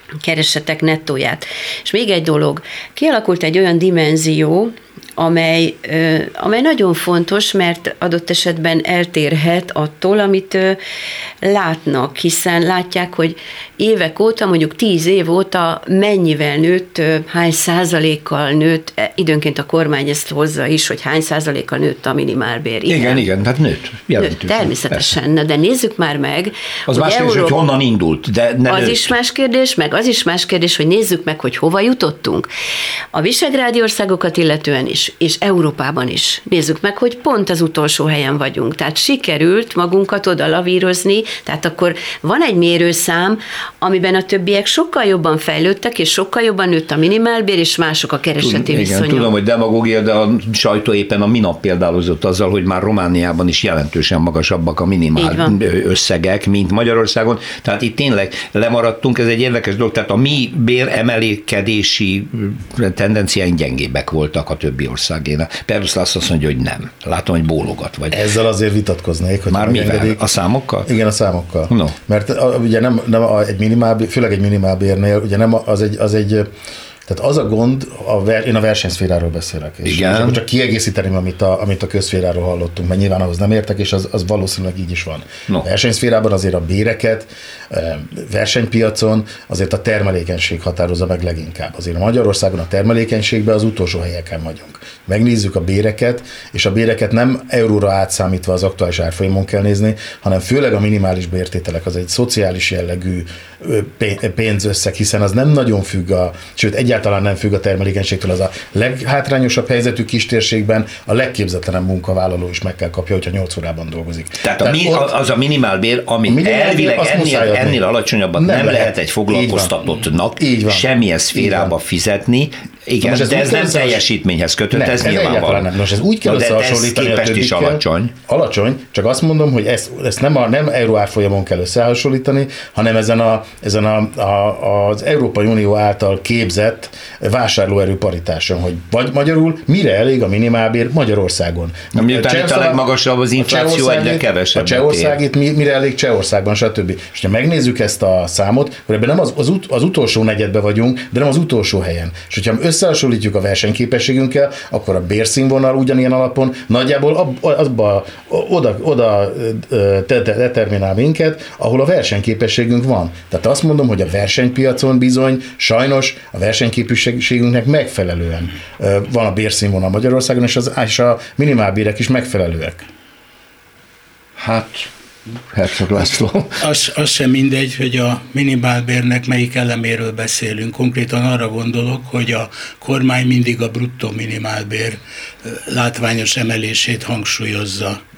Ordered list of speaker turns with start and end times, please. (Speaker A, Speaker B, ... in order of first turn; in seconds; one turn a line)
Speaker A: 0.2-10.8
Speaker A: 11.4-23.2
Speaker B: 22.9-25.1
Speaker A: 24.2-27.6
Speaker B: 26.9-29.1
Speaker A: 28.7-32.5
Speaker A: 33.1-49.3
Speaker B: 48.4-68.2
Speaker A: 55.1-55.6
Speaker C: 68.1-70.3
Speaker B: 69.5-70.9
Speaker C: 70.8-76.5
Speaker B: 71.7-72.0
Speaker C: 77.1-115.1
Speaker B: 79.8-80.4
Speaker B: 114.4-125.7
Speaker C: 116.3-117.8
Speaker C: 118.4-119.8
Speaker C: 120.4-121.7
Speaker C: 123.0-124.0
Speaker C: 124.7-142.8
Speaker B: 126.2-128.1
Speaker B: 141.9-145.2
Speaker C: 143.4-172.8
Speaker B: 174.4-174.9
Speaker B: 175.5-176.6
Speaker D: 176.6-188.0